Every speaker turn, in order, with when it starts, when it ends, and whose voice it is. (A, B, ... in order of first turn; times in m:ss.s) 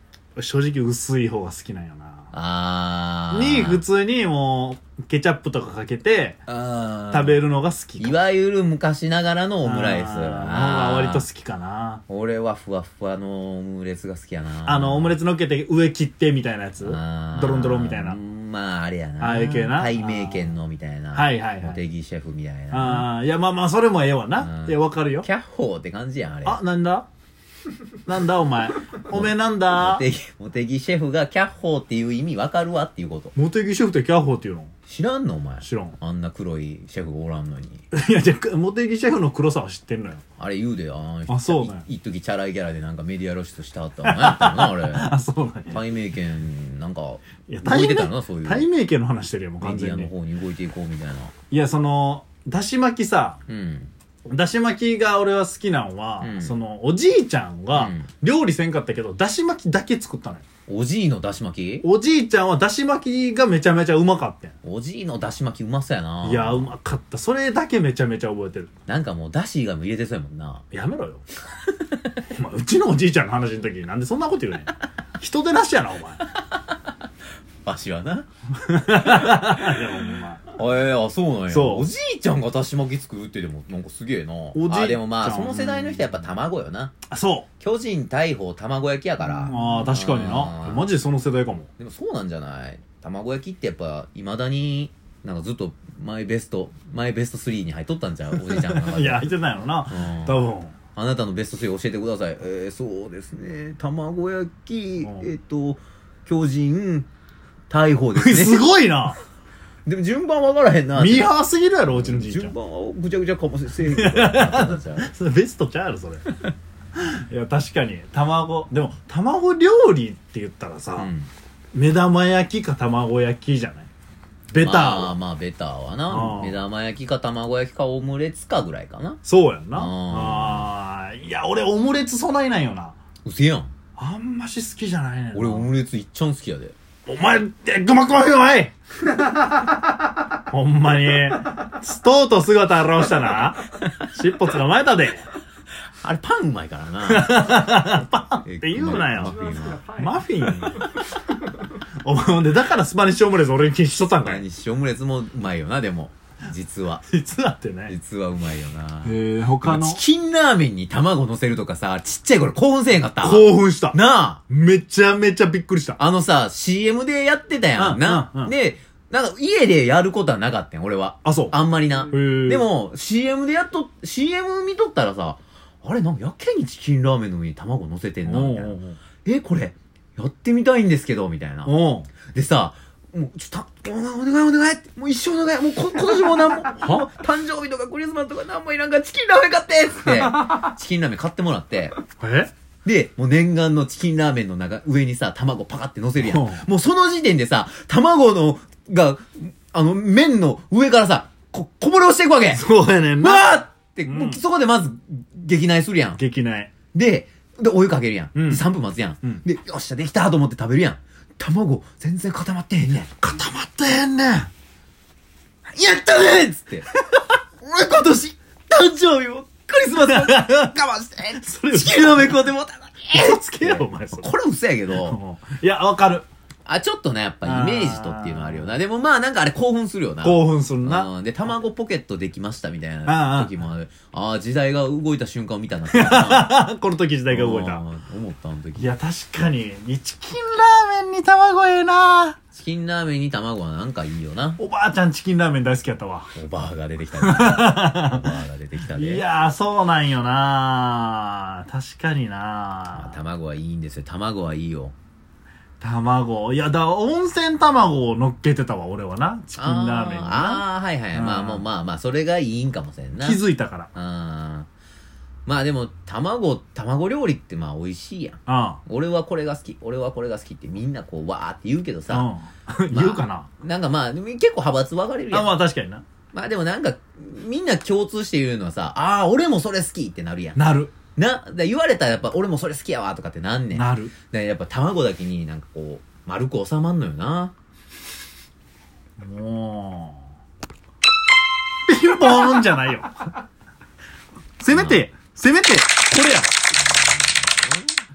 0:00.4-0:02.3 A
0:02.3-0:03.8 B
0:03.3-0:06.4 A
0:06.5-0:07.4 B
0:07.1-0:08.2 A
0:08.0-0:11.2 B
0:09.6-0:12.0 A
0:12.1-0:15.2 B
0:14.6-0:18.2 A
0:16.8-0:23.1 B
0:19.2-0:20.5 A
0:21.1-0:21.8 A
0:22.7-0:25.3 A
0:24.4-0:26.6 B
0:26.4-0:27.1 A
0:28.0-0:30.1 A
0:29.1-0:33.3 B
0:33.3-0:34.7 A
0:34.9-0:37.8 B
0:35.6-0:36.0 A
0:37.9-0:40.2 A
0:40.4-0:45.1 B
0:41.3-0:41.8 A
0:44.0-0:45.8 A
0:45.7-0:48.7 B
0:47.5-0:50.1 A
0:49.6-0:51.3 B
0:51.5-0:53.4 A
0:53.5-0:53.9 B
0:54.2-1:00.4 A
0:56.2-0:56.5 B
0:57.7-0:58.1 B
1:00.7-1:01.8 B
1:01.8-1:04.5 A
1:04.6-1:06.7 B
1:06.2-1:08.7 A
1:08.9-1:10.6 B
1:10.7-1:11.2 A
1:11.7-1:12.0 B
1:12.3-1:16.3 A
1:17.6-1:18.2 B
1:18.6-1:20.4 A
1:19.1-1:19.8 B
1:20.5-1:26.9 B
1:21.5-1:21.9 A
1:24.5-1:26.0 A
1:27.1-1:27.5 A
1:27.6-1:30.8 B
1:29.4-1:31.7 A
1:31.8-1:39.2 B
1:38.4-1:40.7 A
1:39.9-1:40.4 B
1:41.0-1:47.1 B
1:45.0-1:45.3 A
1:47.7-1:48.7 B
1:48.2-1:49.2 A
1:49.8-1:51.3 B
1:51.0-1:52.5 A
1:51.9-1:55.1 B
1:53.9-1:56.4 A
1:56.9-2:01.1 A
2:00.9-2:01.3 B
2:01.7-2:03.9 A
2:04.5-2:05.2 A
2:04.6-2:09.2 B
2:06.1-2:06.6 A
2:09.2-2:12.9 A
2:09.7-2:10.7 B
2:13.2-2:13.7 B
2:14.0-2:15.7 A
2:15.3-2:16.7 B
2:17.1-2:18.7 A
2:20.5-2:25.3 A
2:26.0-2:27.8 B
2:27.0-2:30.9 A
2:28.4-2:29.9 B
2:32.0-2:34.4 A
2:34.0-2:37.0 B
2:37.1-2:38.0 A
2:37.9-2:44.4 B
2:39.0-2:40.0 A
2:43.2-2:44.0 A
2:44.5-2:46.0 A
2:46.0-3:01.8 B
2:47.8-2:48.5 A
2:51.2-2:51.6 A
2:52.1-2:52.7 A
2:58.3-2:59.0 A
3:01.6-3:02.1 A
3:02.3-3:12.0 B
3:12.2-3:12.5 A
3:12.8-3:22.6 B
3:16.2-3:16.6 A
3:22.5-3:24.4 A
3:23.2-3:26.2 B
3:26.2-3:26.7 A
3:26.9-3:33.1 B
3:28.3-3:28.6 A
3:33.1-3:34.5 A
3:35.7-3:36.9 B
3:37.6-3:45.2 B
3:39.9-3:40.8 A
3:41.4-3:42.5 A
3:43.1-3:44.3 A
3:45.0-3:46.2 A
3:46.6-3:56.6 B
3:47.4-3:48.7 A
3:50.2-3:51.1 A
3:53.0-3:53.5 A
3:55.9-3:57.8 A
3:57.3-3:58.9 B
3:58.8-4:02.4 A
4:02.5-4:04.6 B
4:04.6-4:06.3 A
4:06.3-4:09.2 B
4:07.2-4:08.3 A
4:08.9-4:13.1 A
4:13.0-4:14.9 B
4:15.8-4:21.6 A
4:19.6-4:24.7 B
4:23.2-4:23.9 A
4:25.4-4:32.3 B
4:28.4-4:28.8 A
4:32.1-4:33.5 A
4:32.9-4:35.5 B
4:35.3-4:36.0 A
4:36.3-4:40.6 B
4:40.5-4:40.9 A
4:41.2-4:47.5 B
4:43.7-4:44.1 A
4:49.2-4:50.2 A
4:51.9-4:53.2 A
4:54.6-4:56.5 A
4:54.7-4:55.0 B
4:56.7-4:57.8 B